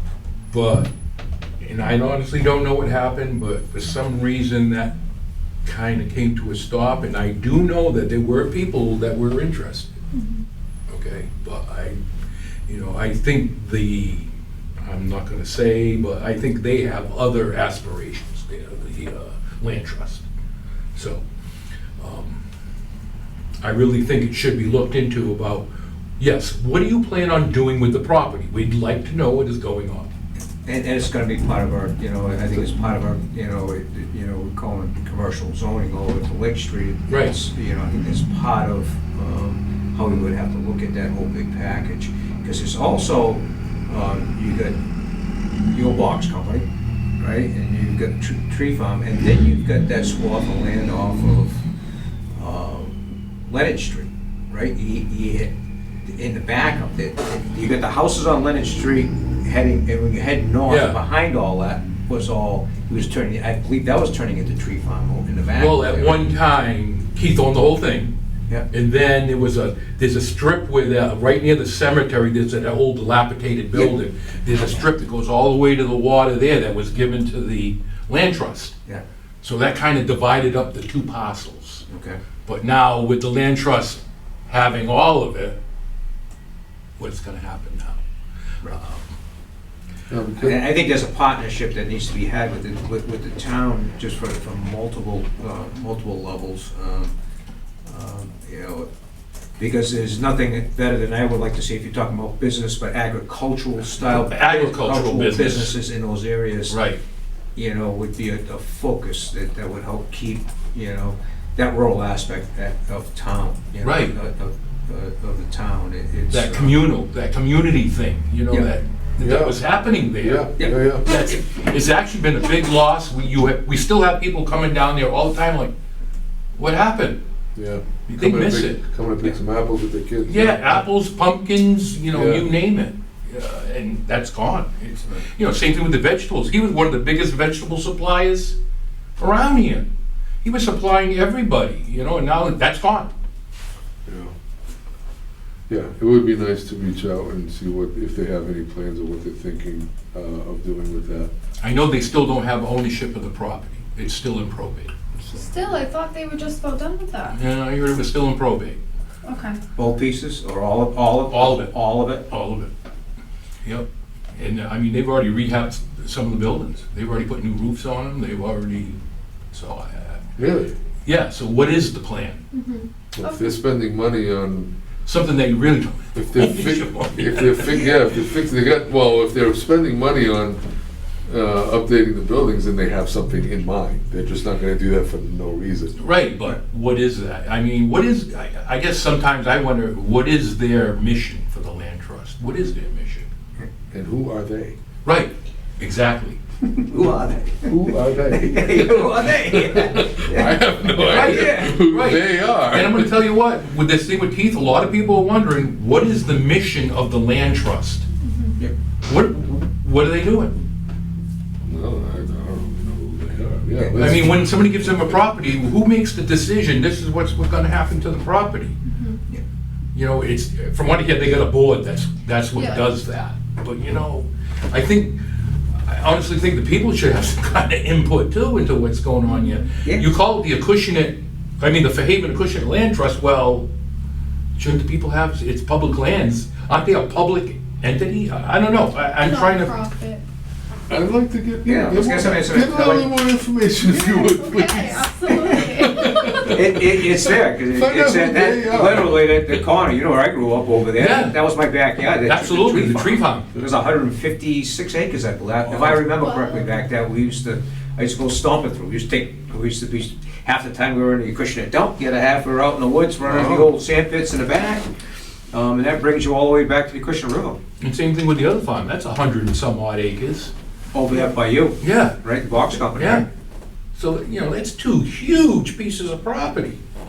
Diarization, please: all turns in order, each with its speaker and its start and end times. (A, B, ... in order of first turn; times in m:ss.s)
0:00.5-0:00.9 A
0:01.6-0:04.9 A
0:05.6-0:09.9 A
0:10.1-0:10.4 B
0:10.9-0:12.0 A
0:12.7-0:14.3 A
0:14.8-0:20.2 A
0:20.9-0:21.2 A
0:22.0-0:22.4 A
0:23.6-0:25.7 A
0:26.2-0:30.1 A
0:30.6-0:44.8 C
0:37.1-0:37.3 A
0:45.7-0:46.6 C
0:47.2-0:51.6 C
0:52.3-0:55.5 C
0:56.0-1:06.3 C
1:00.7-1:01.0 A
1:05.6-1:08.1 A
1:08.7-1:18.7 A
1:19.4-1:21.8 A
1:21.9-1:22.2 C
1:22.4-1:25.6 A
1:27.0-1:28.0 A
1:28.6-1:29.1 A
1:30.1-1:30.6 D
1:30.4-1:37.1 C
1:37.8-1:38.9 C
1:39.6-1:46.8 C
1:44.0-1:45.8 A
1:46.7-1:47.0 A
1:47.5-1:56.8 C
1:53.8-1:54.1 A
1:56.3-2:05.7 A
1:59.2-1:59.6 D
2:00.1-2:01.1 D
2:00.6-2:00.8 C
2:06.6-2:07.2 A
2:07.6-2:10.8 D
2:08.1-2:08.8 A
2:10.2-2:18.6 A
2:12.1-2:12.5 D
2:19.2-2:19.8 A
2:20.4-2:23.1 A
2:24.0-2:24.3 D
2:25.7-2:31.3 D
2:31.6-2:34.9 A
2:35.3-2:37.3 B
2:37.3-2:38.8 A
2:39.2-2:39.6 B
2:39.8-2:42.3 C
2:41.3-2:41.7 A
2:42.3-2:42.7 A
2:43.6-2:49.0 A
2:49.5-2:50.3 A
2:50.4-2:50.7 D
2:51.0-2:52.4 A
2:52.5-2:53.5 B
2:53.1-2:54.7 D
2:55.0-2:57.9 A
2:56.1-3:00.6 D
2:57.7-2:57.9 C
3:01.2-3:05.9 D
3:06.0-3:13.2 A
3:13.9-3:14.8 D
3:15.0-3:16.4 A
3:16.7-3:21.8 C
3:17.7-3:23.1 D
3:21.0-3:28.1 A
3:28.2-3:28.5 B
3:29.0-3:30.6 A
3:31.6-3:35.1 D
3:33.9-3:38.7 A
3:38.8-3:39.2 B
3:39.9-3:45.2 A
3:42.5-3:42.8 B
3:45.8-3:53.7 A
3:49.3-3:49.6 B
3:54.6-3:59.8 A
3:59.2-4:00.2 B
4:00.9-4:09.4 D
4:01.6-4:03.2 C
4:03.8-4:06.6 B
4:05.3-4:05.6 C
4:06.3-4:24.9 C
4:11.0-4:11.4 A
4:12.2-4:13.5 A
4:16.2-4:16.7 B
4:23.2-4:23.7 D
4:25.5-4:27.6 C
4:27.8-4:30.5 A
4:30.9-4:33.2 C
4:31.8-4:32.2 A
4:32.7-4:33.2 A
4:33.9-4:36.8 A